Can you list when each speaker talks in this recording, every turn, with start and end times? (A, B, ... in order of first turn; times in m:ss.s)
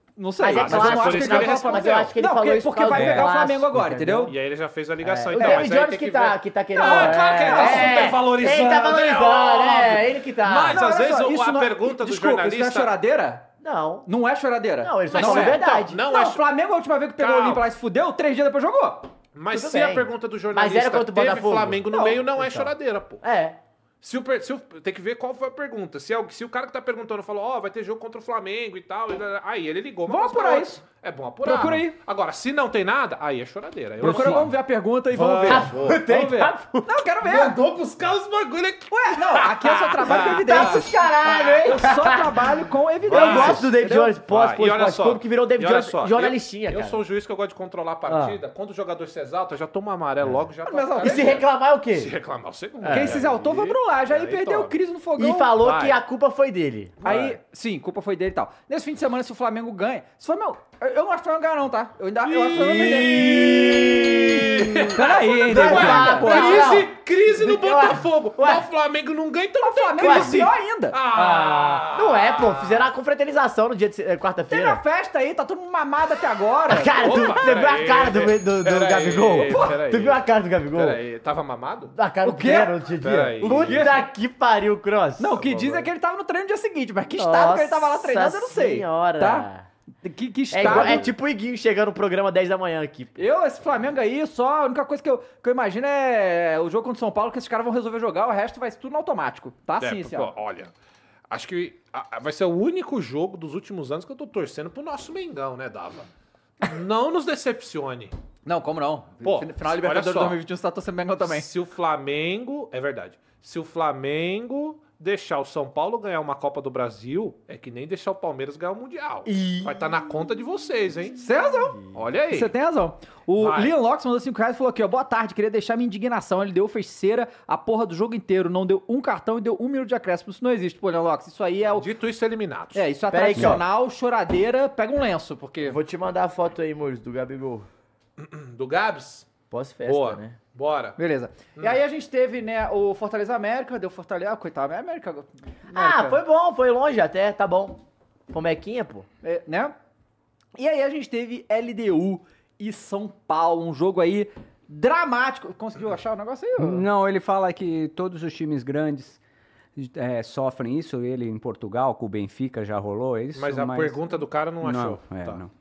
0:00.2-0:04.3 A
0:00.4-0:04.4 B
0:00.4-0:02.1 C
0:02.9-0:03.4 D
0:04.3-0:12.9 C
0:05.0-0:10.8 B
0:05.3-0:05.7 A
0:06.7-0:08.0 A
0:10.7-0:13.4 A
0:13.6-0:14.1 B
0:14.0-0:19.1 A
0:14.8-0:16.0 B
0:15.1-0:16.4 C
0:17.2-0:17.6 C
0:19.3-0:23.2 C
0:19.5-0:23.6 B
0:21.9-0:22.2 A
0:24.0-0:34.5 C
0:30.1-0:30.8 A
0:31.4-0:32.0 A
0:34.0-0:35.7 A
0:34.0-0:34.5 B
0:35.1-0:36.5 C
0:35.4-0:36.9 B
0:36.8-0:37.6 A
0:37.2-0:41.6 C
0:38.9-0:44.1 A
0:40.1-0:42.4 B
0:43.1-0:43.7 C
0:43.1-0:47.0 B
0:44.3-0:54.8 C
0:48.1-0:48.4 B
0:50.6-0:51.4 A
0:51.0-0:52.1 B
0:52.8-0:53.2 B
0:52.9-0:55.5 A
0:55.2-0:57.0 B
0:55.6-0:56.0 C
0:57.0-0:57.4 C
0:57.0-1:03.5 A
1:02.2-1:12.9 C
1:02.6-1:08.6 B
1:04.9-1:06.6 A
1:04.9-1:06.6 D
1:09.6-1:11.0 A
1:10.0-1:10.4 B
1:11.1-1:14.8 B
1:14.5-1:17.5 A
1:16.7-1:21.0 B
1:17.0-1:21.9 C
1:19.5-1:19.8 A
1:21.9-1:25.3 B
1:22.2-1:22.8 A
1:23.0-1:24.0 C
1:23.5-1:24.0 A
1:25.2-1:29.5 A
1:25.4-1:25.9 C
1:27.1-1:29.6 B
1:30.0-1:31.1 A
1:30.5-1:33.3 B
1:30.6-1:31.0 C
1:33.2-1:40.3 A
1:39.8-1:40.7 C
1:41.3-1:46.1 C
1:46.6-1:48.1 C
1:48.4-1:51.5 A
1:49.2-1:50.4 C
1:51.2-2:01.2 C
1:59.3-1:59.7 B
2:01.2-2:01.8 A
2:01.9-2:02.5 C
2:02.3-2:11.9 A
2:03.4-2:03.7 C
2:11.7-2:12.8 C
2:12.7-2:15.8 A
2:13.1-2:13.6 B
2:15.6-2:17.7 B
2:18.2-2:19.3 C
2:19.5-2:20.4 B
2:19.8-2:21.0 C
2:21.0-2:26.2 A
2:25.7-2:29.1 B
2:29.2-2:29.7 A
2:30.6-2:36.8 A
2:36.6-2:39.2 D
2:39.8-2:44.0 D
2:43.3-2:45.4 C
2:44.6-2:45.5 D